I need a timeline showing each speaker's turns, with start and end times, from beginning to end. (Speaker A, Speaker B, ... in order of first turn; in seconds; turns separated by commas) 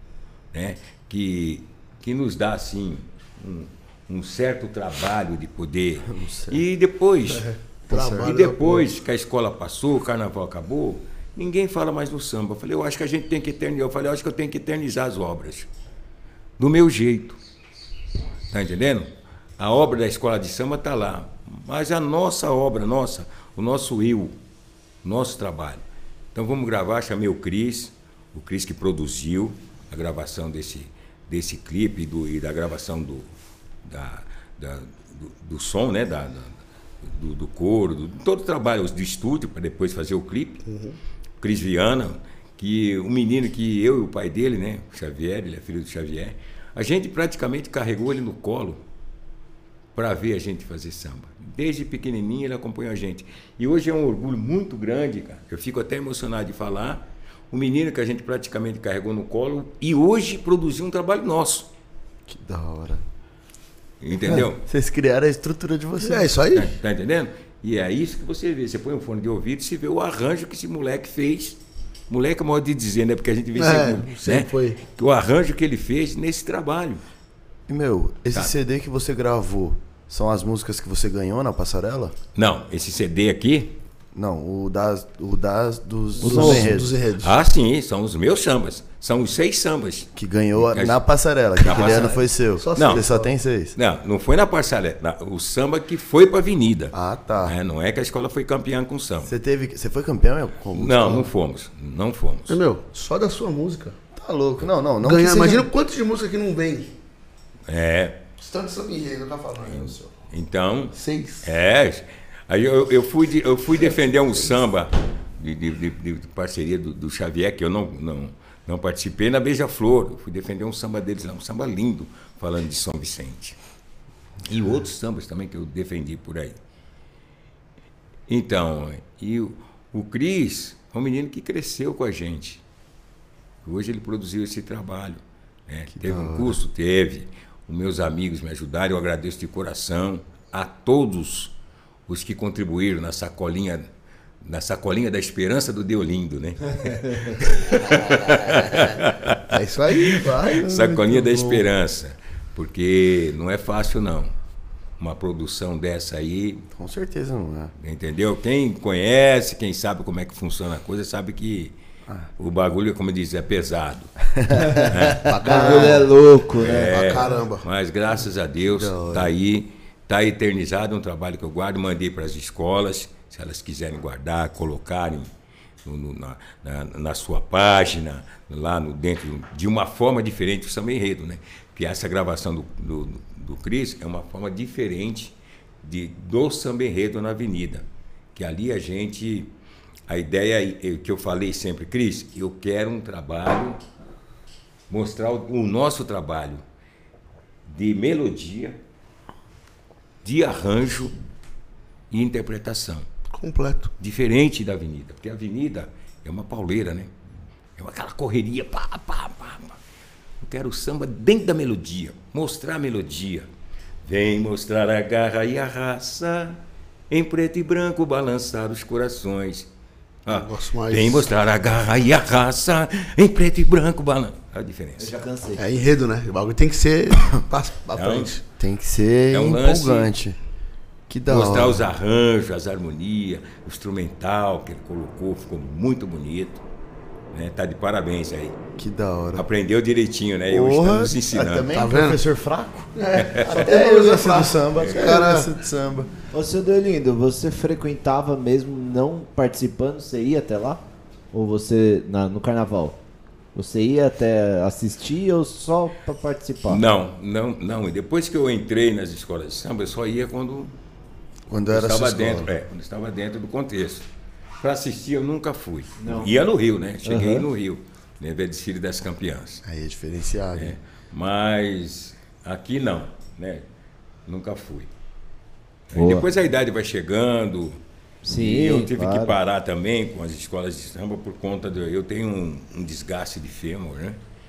Speaker A: 0.5-15.7, Speaker B: 6.1-6.6, Speaker C: 7.3-8.9, Speaker B: 7.9-8.3, Speaker A: 16.6-17.4, Speaker A: 18.5-19.1, Speaker A: 19.6-24.4, Speaker A: 25.0-25.8, Speaker A: 26.3-33.3, Speaker A: 33.8-40.6, Speaker C: 40.7-41.0, Speaker A: 41.4-48.8, Speaker A: 50.0-61.7, Speaker B: 62.3-63.0, Speaker A: 64.0-64.6, Speaker B: 64.7-66.3, Speaker C: 66.0-66.7, Speaker A: 66.5-71.6, Speaker A: 72.1-77.0, Speaker C: 73.6-74.8, Speaker B: 77.7-82.2, Speaker A: 82.3-83.8, Speaker B: 84.1-87.0, Speaker C: 86.2-87.3, Speaker D: 86.2-86.7, Speaker A: 87.2-91.0, Speaker B: 90.2-93.8, Speaker A: 91.6-92.2, Speaker C: 91.7-93.3, Speaker A: 92.8-93.1, Speaker A: 93.8-99.3, Speaker B: 96.9-97.6, Speaker B: 99.2-101.3, Speaker A: 100.7-102.6, Speaker C: 102.5-104.0, Speaker B: 104.2-105.7, Speaker C: 105.0-106.9, Speaker A: 107.7-108.2, Speaker C: 108.4-110.1, Speaker A: 109.7-123.6, Speaker C: 110.9-111.5, Speaker A: 124.5-126.6, Speaker A: 128.3-132.6, Speaker A: 133.7-141.6, Speaker B: 136.0-136.6, Speaker A: 142.1-143.9, Speaker A: 144.4-154.3, Speaker C: 148.5-148.8, Speaker C: 149.4-150.7, Speaker B: 150.7-151.7, Speaker A: 155.0-156.7, Speaker B: 156.7-157.7, Speaker A: 157.8-161.7, Speaker A: 162.4-164.1, Speaker B: 164.3-165.7, Speaker A: 164.9-165.3, Speaker C: 165.1-166.1, Speaker D: 165.4-166.9, Speaker A: 166.6-175.3, Speaker C: 166.8-167.7, Speaker B: 168.8-169.3, Speaker A: 175.8-189.5, Speaker A: 190.1-193.8, Speaker A: 194.9-196.6, Speaker A: 197.7-198.8, Speaker A: 200.2-201.1, Speaker A: 202.1-203.1, Speaker C: 203.3-203.9, Speaker A: 204.0-207.1, Speaker A: 207.8-209.8, Speaker A: 210.4-213.5, Speaker A: 214.1-219.7, Speaker A: 220.3-225.1, Speaker C: 220.3-221.3, Speaker D: 225.0-225.6, Speaker C: 225.6-228.4, Speaker A: 227.9-228.3, Speaker B: 228.6-230.4, Speaker A: 229.3-230.1, Speaker B: 231.1-231.9, Speaker A: 231.3-236.6, Speaker A: 237.3-238.6, Speaker B: 238.8-239.4, Speaker A: 239.3-241.7, Speaker B: 240.5-246.1, Speaker C: 241.7-242.2, Speaker C: 242.9-245.5, Speaker A: 243.2-243.6, Speaker D: 246.3-250.8, Speaker D: 251.3-253.0, Speaker D: 253.6-256.8, Speaker A: 256.7-260.8, Speaker B: 261.5-262.5, Speaker A: 261.7-264.1, Speaker A: 264.6-269.6, Speaker D: 266.0-266.3, Speaker D: 267.1-267.4, Speaker B: 269.6-270.8, Speaker A: 270.6-273.6, Speaker A: 274.3-274.9, Speaker A: 275.9-277.8, Speaker D: 275.9-276.3, Speaker D: 278.2-279.4, Speaker A: 278.4-284.2